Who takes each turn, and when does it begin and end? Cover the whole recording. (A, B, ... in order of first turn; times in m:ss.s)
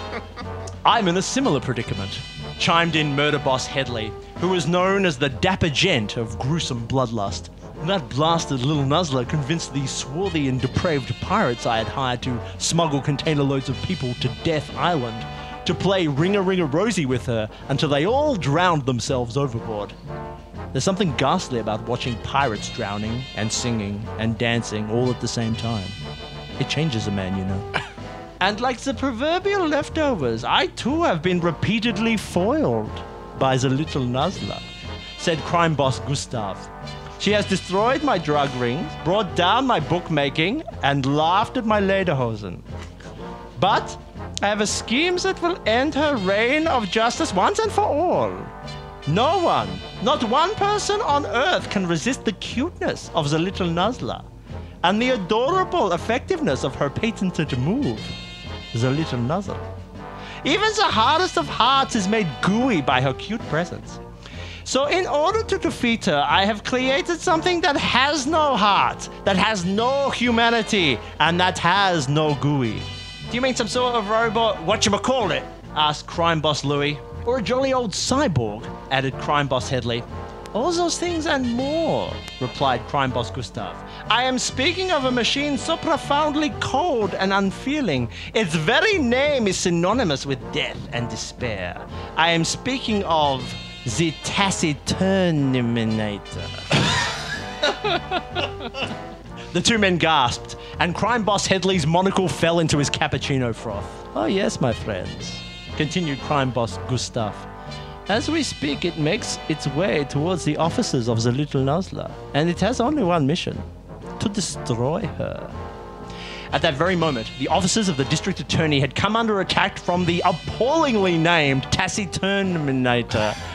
0:00.8-0:19.9 A
0:20.7-0:26.0 A
0:26.6-0:27.7 A
0:28.4-0:34.6 A
0:35.2-0:36.7 A
0:37.2-0:42.6 A
0:43.6-0:48.5 A
0:49.0-0:54.2 A
0:54.8-0:58.1 A
0:58.7-0:59.6 A
1:00.4-1:04.0 A
1:04.6-1:36.9 A
1:39.5-1:47.5 A
1:48.1-1:53.6 A
1:54.2-1:55.6 A
1:56.5-2:03.4 A